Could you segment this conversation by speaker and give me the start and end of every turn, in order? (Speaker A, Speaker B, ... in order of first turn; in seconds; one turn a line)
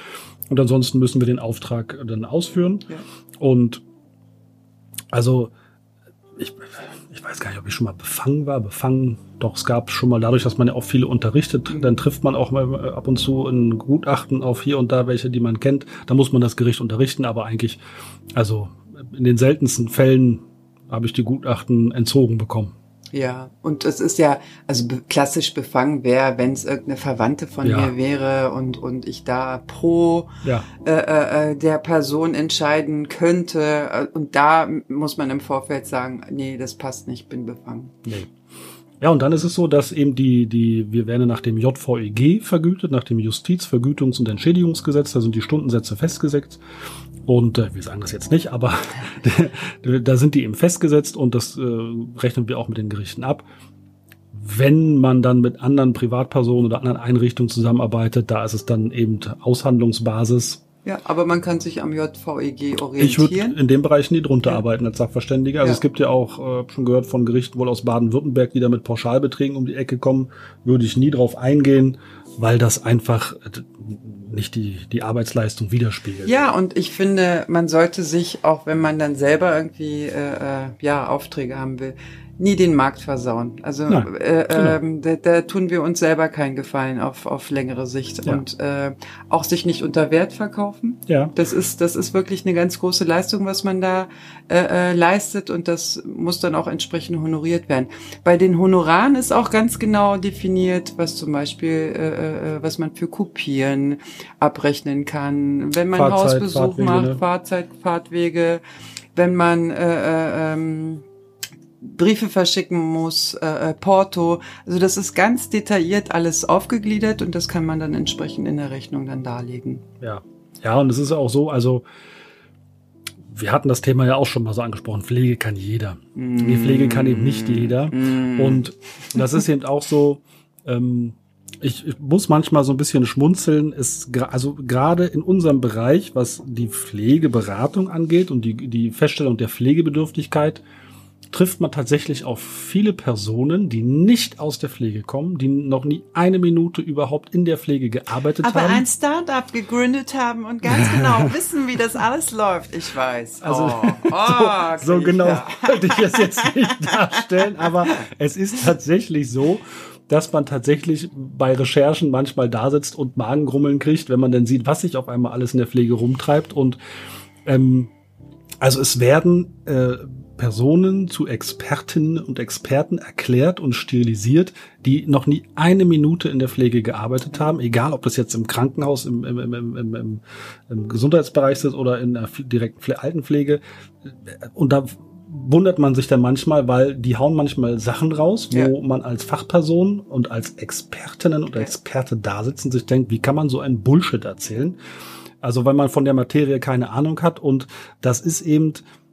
Speaker A: 0.5-2.9
Speaker A: 3.4-3.8
Speaker A: 5.1-5.5
Speaker A: 6.4-17.8
Speaker B: 11.7-12.0
Speaker A: 18.3-22.7
Speaker B: 23.1-38.0
Speaker A: 27.6-27.9
Speaker A: 38.0-38.3
Speaker A: 39.0-46.6
Speaker A: 47.2-53.5
Speaker A: 54.3-60.6
Speaker B: 60.9-63.6
Speaker A: 63.0-76.3
Speaker B: 76.2-108.6
Speaker A: 83.9-84.8
Speaker A: 91.1-91.3
Speaker A: 105.9-107.2
Speaker B: 109.2-111.0
Speaker B: 111.8-119.8
Speaker A: 120.0-121.9
Speaker A: 123.3-140.6
Speaker B: 126.2-129.2
Speaker A: 141.3-148.8
Speaker B: 148.4-158.0
Speaker A: 150.7-151.3
Speaker A: 153.4-166.8
Speaker A: 167.4-167.9
Speaker A: 168.6-194.8
Speaker A: 195.4-198.8